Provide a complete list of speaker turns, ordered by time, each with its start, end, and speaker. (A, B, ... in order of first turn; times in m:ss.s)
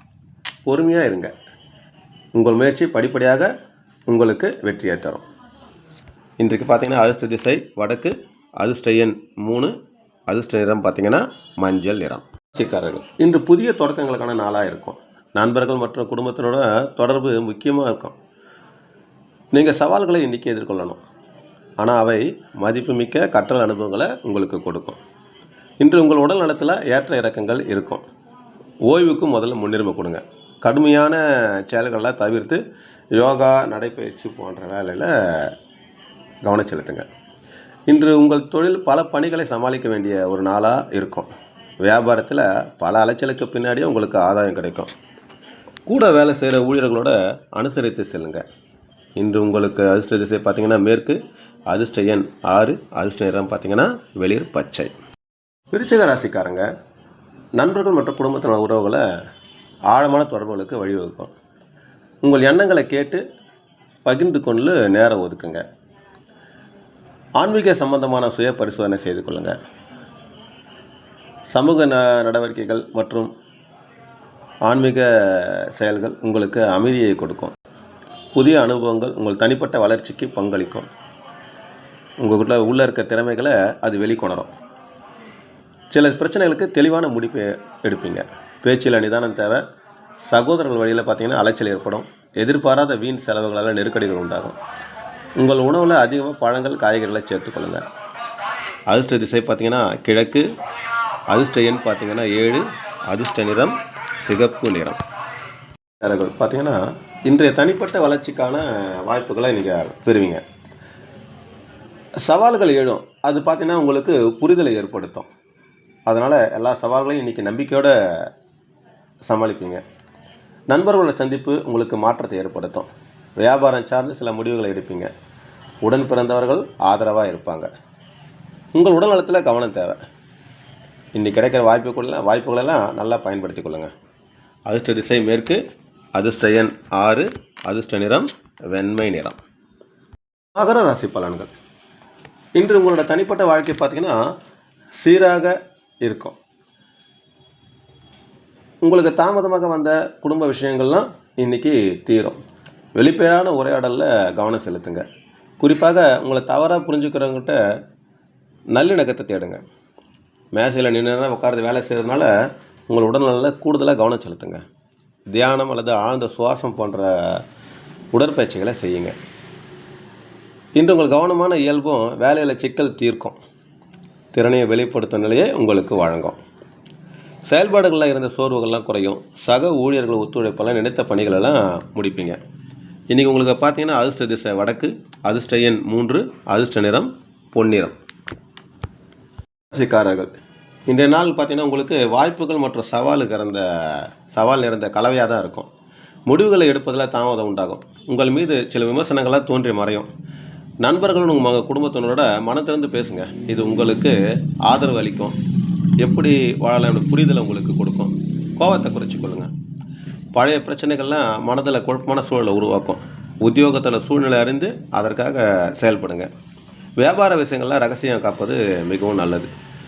0:00.7-0:01.3 A
0:02.4-0:03.5 A
0:04.1-0:05.2 A
0:06.4-0:09.7 A
0:10.3-0:18.2 A
0:19.5-0:21.0 A
0:21.8-0:25.0 A
0:25.8-0:28.0 A
0:28.8-0:32.6 A
0:33.1-0:35.6 A
0:36.4-0:37.1 A
0:37.9-0:41.3 A
0:41.8-0:44.9 A
0:45.9-0:48.4 A
0:49.2-0:54.9 A
0:55.7-0:56.7 A
0:57.6-0:59.1 A
0:59.9-1:01.3 A
1:02.2-1:03.2 A
1:04.0-1:05.6 A
1:07.4-1:09.6 A
1:11.5-1:13.3 A
1:14.7-1:17.5 A
1:18.3-1:20.9 A
1:22.2-1:24.5 A
1:25.9-1:29.6 A
1:30.2-1:34.6 A
1:35.4-1:37.8 A
1:38.9-1:40.5 A
1:41.3-1:45.0 A
1:46.0-1:50.4 A
1:52.2-1:55.3 A
1:56.1-1:58.3 A
1:59.2-1:59.8 A
2:00.7-2:05.1 A
2:05.8-2:07.7 A
2:08.8-2:10.0 A
2:11.1-2:13.9 A
2:14.6-2:15.6 A
2:16.1-2:19.4 A
2:20.6-2:21.5 A
2:22.6-2:24.2 A
2:25.0-2:26.4 A
2:28.8-2:32.4 A
2:33.0-2:35.1 A
2:35.6-2:37.6 A
2:38.7-2:39.6 A
2:40.5-2:42.3 A
2:42.9-2:44.6 A
2:45.3-2:47.4 A
2:48.1-2:49.2 A
2:50.8-2:53.4 A
2:54.3-2:56.4 A
2:57.5-3:02.4 A
3:03.1-3:08.0 A
3:09.7-3:10.3 A
3:10.9-3:15.7 A
3:16.3-3:20.1 A
3:20.8-3:25.4 A
3:26.0-3:29.5 A
3:30.3-3:36.3 A
3:37.0-3:39.5 A